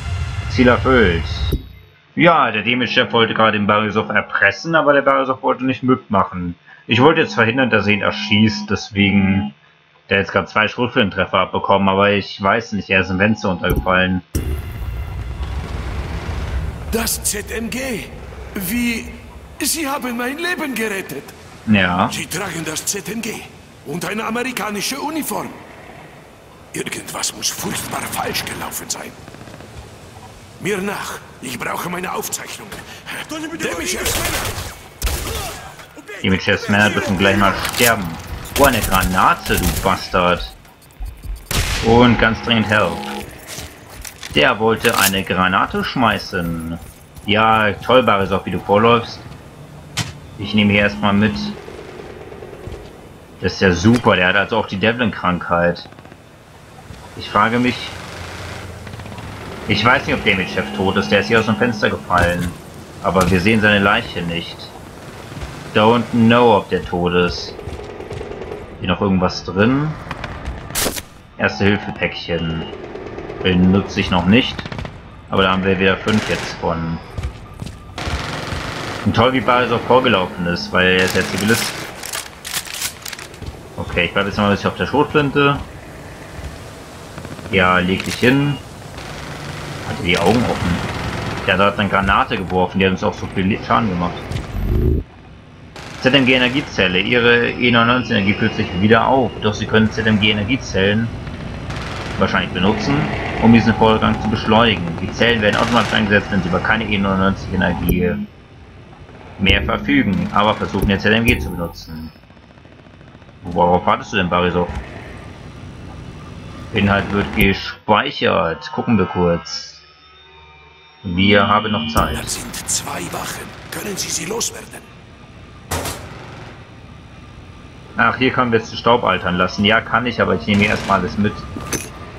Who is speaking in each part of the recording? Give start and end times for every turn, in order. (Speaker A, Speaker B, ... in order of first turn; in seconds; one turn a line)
Speaker A: 0.5-1.6
Speaker A: 2.1-9.6
Speaker A: 10.1-14.2
Speaker B: 16.9-21.3
Speaker A: 21.6-22.2
Speaker B: 22.1-25.6
Speaker B: 26.7-29.2
Speaker B: 30.6-34.5
Speaker A: 36.2-40.5
Speaker A: 41.8-43.1
Speaker A: 44.3-49.3
Speaker A: 50.4-51.6
Speaker A: 53.4-55.9
Speaker A: 57.1-58.0
Speaker A: 59.7-64.7
Speaker A: 65.7-67.6
Speaker A: 68.8-70.0
Speaker A: 71.4-72.7
Speaker A: 73.4-74.7
Speaker A: 75.3-77.0
Speaker A: 79.0-81.8
Speaker A: 83.8-85.6
Speaker A: 87.5-88.6
Speaker A: 89.8-90.9
Speaker A: 91.4-94.2
Speaker A: 96.0-101.2
Speaker A: 102.2-108.3
Speaker A: 109.4-112.1
Speaker A: 113.4-114.8
Speaker A: 116.7-119.8
Speaker A: 121.0-122.3
Speaker B: 122.1-124.8
Speaker A: 128.0-131.4